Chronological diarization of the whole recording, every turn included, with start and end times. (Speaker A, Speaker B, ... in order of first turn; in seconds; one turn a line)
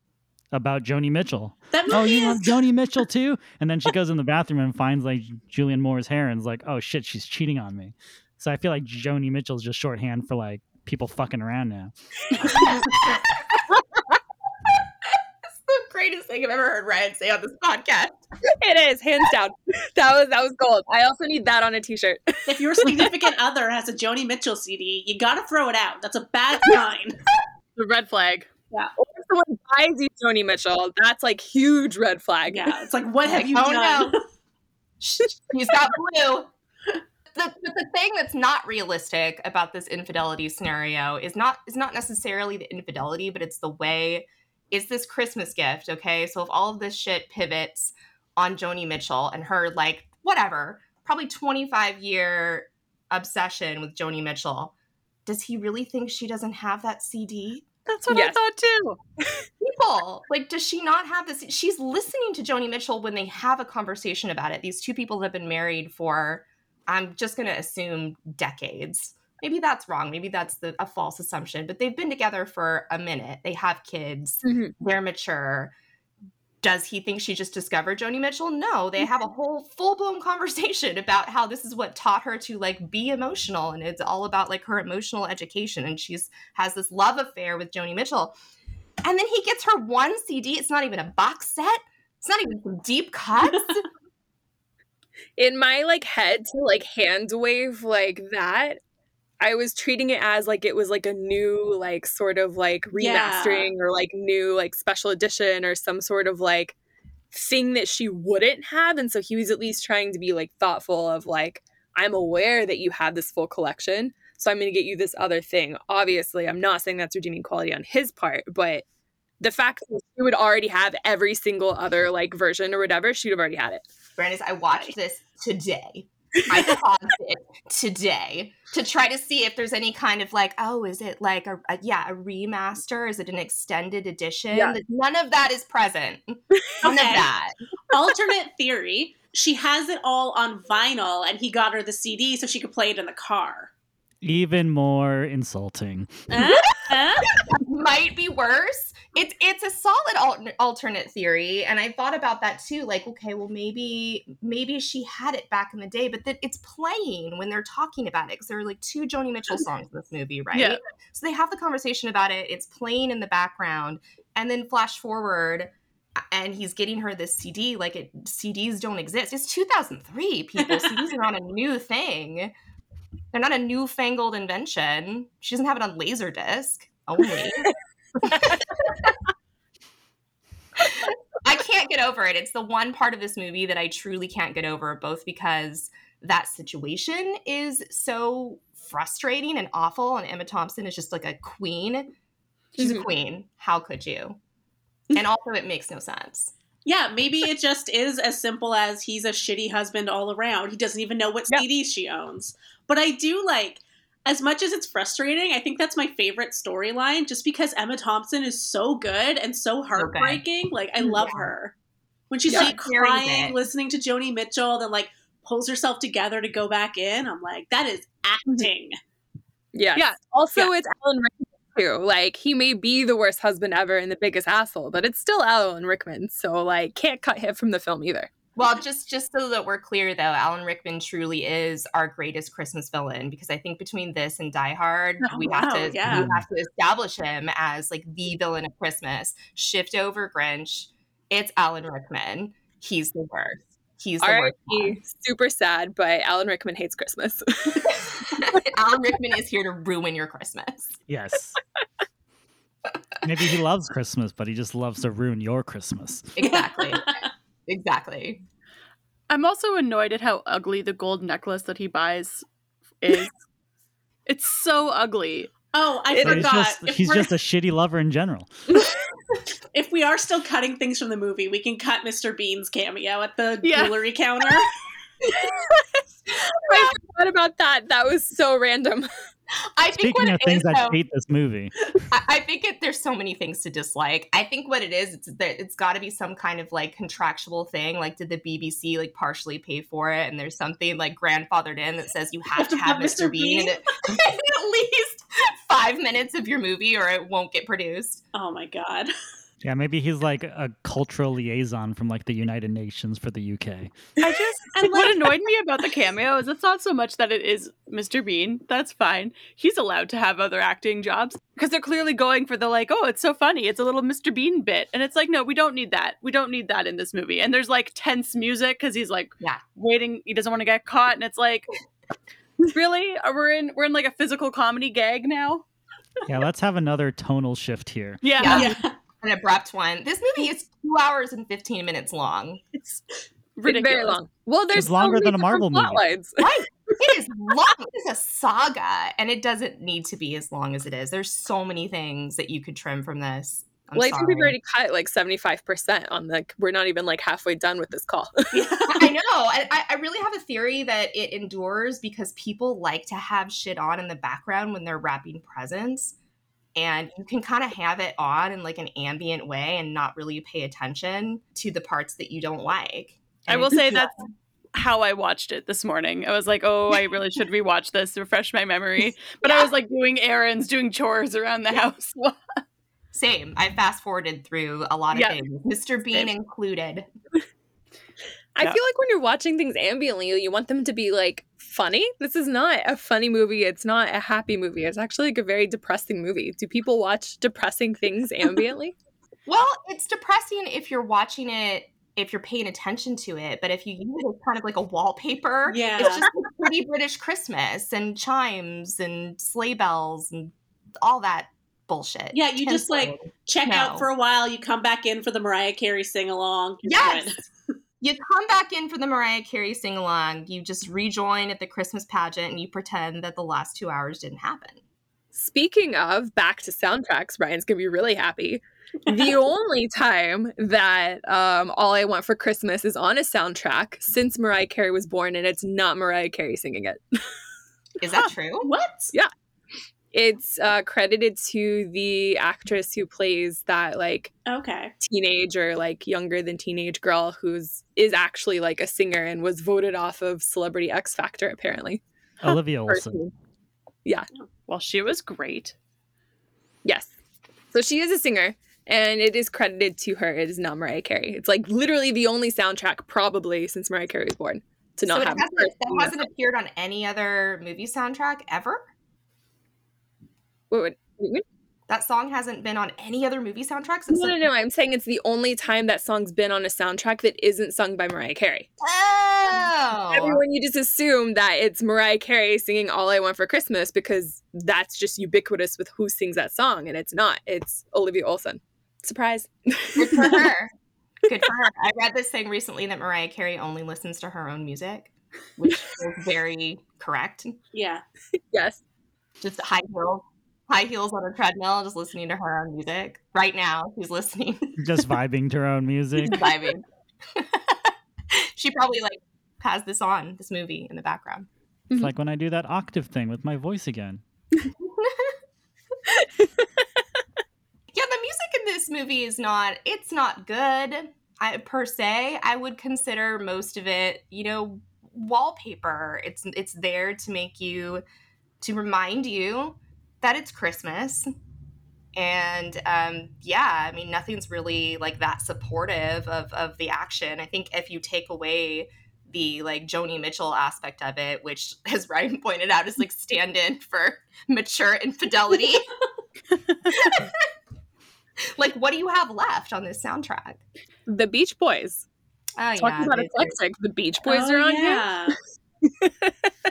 Speaker A: 0.5-12.7
Speaker B: 1.7-2.5
Speaker C: 12.3-14.0
Speaker C: 14.7-18.2
Speaker D: 18.6-23.1
Speaker B: 22.5-27.2
Speaker E: 27.8-28.5
Speaker D: 29.0-32.7
Speaker B: 32.5-34.2
Speaker C: 33.3-34.1
Speaker C: 35.0-36.5
Speaker C: 37.3-54.7
Speaker C: 55.3-57.7
Speaker E: 57.9-59.0
Speaker D: 58.1-58.4
Speaker C: 59.6-75.7
Speaker D: 74.4-74.7
Speaker C: 76.6-88.3
Speaker C: 89.0-93.9
Speaker D: 95.4-98.8
Speaker D: 99.4-106.8
Speaker B: 103.0-103.7
Speaker D: 107.3-118.8
Speaker D: 119.4-123.8
Speaker C: 124.2-137.6
Speaker B: 136.8-137.3
Speaker B: 137.9-143.7
Speaker A: 144.2-146.1
Speaker B: 146.3-147.3
Speaker C: 146.5-165.7
Speaker E: 160.6-160.8
Speaker C: 166.3-172.5
Speaker C: 173.3-179.2
Speaker C: 180.8-192.1
Speaker C: 192.8-194.4
Speaker D: 192.8-193.1
Speaker C: 195.1-196.5
Speaker B: 196.9-211.7
Speaker C: 209.9-210.4
Speaker C: 211.1-211.4
Speaker B: 212.3-219.0
Speaker C: 212.5-213.6
Speaker D: 219.7-228.3
Speaker E: 220.0-220.7
Speaker C: 228.6-245.0
Speaker B: 235.3-236.3
Speaker A: 236.1-236.4
Speaker D: 244.2-248.6
Speaker C: 247.8-251.0
Speaker A: 251.1-251.6
Speaker A: 253.2-256.4
Speaker C: 256.4-257.1
Speaker B: 256.4-257.3
Speaker C: 257.7-258.4
Speaker E: 259.3-262.4
Speaker E: 263.0-263.3
Speaker E: 264.3-265.5
Speaker B: 265.7-267.3
Speaker A: 266.2-268.6
Speaker B: 269.7-274.7
Speaker E: 273.6-273.9
Speaker D: 275.3-275.8
Speaker D: 276.6-279.1
Speaker C: 276.7-277.0
Speaker C: 279.8-281.0
Speaker A: 280.0-281.7
Speaker C: 282.1-298.2
Speaker B: 292.6-293.8
Speaker B: 298.3-299.1
Speaker A: 299.6-304.2
Speaker E: 304.2-321.7
Speaker B: 304.8-305.4
Speaker E: 322.6-325.6
Speaker A: 326.3-328.2
Speaker E: 328.2-328.8
Speaker C: 328.4-332.6
Speaker B: 328.4-328.9
Speaker E: 333.6-334.2
Speaker D: 333.6-336.4
Speaker A: 334.8-336.1
Speaker C: 336.4-344.6
Speaker D: 343.9-348.7
Speaker B: 348.5-349.1
Speaker C: 348.9-356.1
Speaker C: 356.8-364.3
Speaker E: 363.5-364.2
Speaker E: 364.7-372.6
Speaker C: 369.4-369.7
Speaker C: 373.1-377.1
Speaker E: 375.1-375.4
Speaker D: 378.6-388.9
Speaker C: 389.5-404.1
Speaker B: 395.7-396.3
Speaker B: 402.3-407.5
Speaker C: 406.8-407.3
Speaker C: 408.0-414.8
Speaker D: 415.4-427.2
Speaker C: 428.0-428.7
Speaker B: 428.6-429.1
Speaker D: 430.1-434.3
Speaker B: 434.5-434.9
Speaker D: 435.0-442.0
Speaker A: 442.4-443.3
Speaker D: 442.6-443.3
Speaker E: 444.7-445.8
Speaker D: 446.9-447.1
Speaker D: 447.7-456.2
Speaker C: 455.1-458.8
Speaker D: 460.7-461.4
Speaker C: 461.9-464.4
Speaker D: 464.1-468.7
Speaker C: 468.8-470.4
Speaker D: 470.1-480.5
Speaker C: 480.0-480.7
Speaker C: 481.2-487.6
Speaker B: 487.7-488.0
Speaker D: 488.5-488.8
Speaker C: 489.4-494.7
Speaker A: 494.8-496.4
Speaker C: 496.2-501.5
Speaker A: 502.0-504.2
Speaker C: 504.8-505.3
Speaker C: 507.9-518.0
Speaker C: 518.6-521.3
Speaker C: 522.1-535.9
Speaker C: 536.9-537.5
Speaker C: 538.4-540.6
Speaker D: 541.1-542.0
Speaker C: 542.6-543.6
Speaker D: 542.8-545.1
Speaker B: 544.3-545.4
Speaker D: 546.0-546.5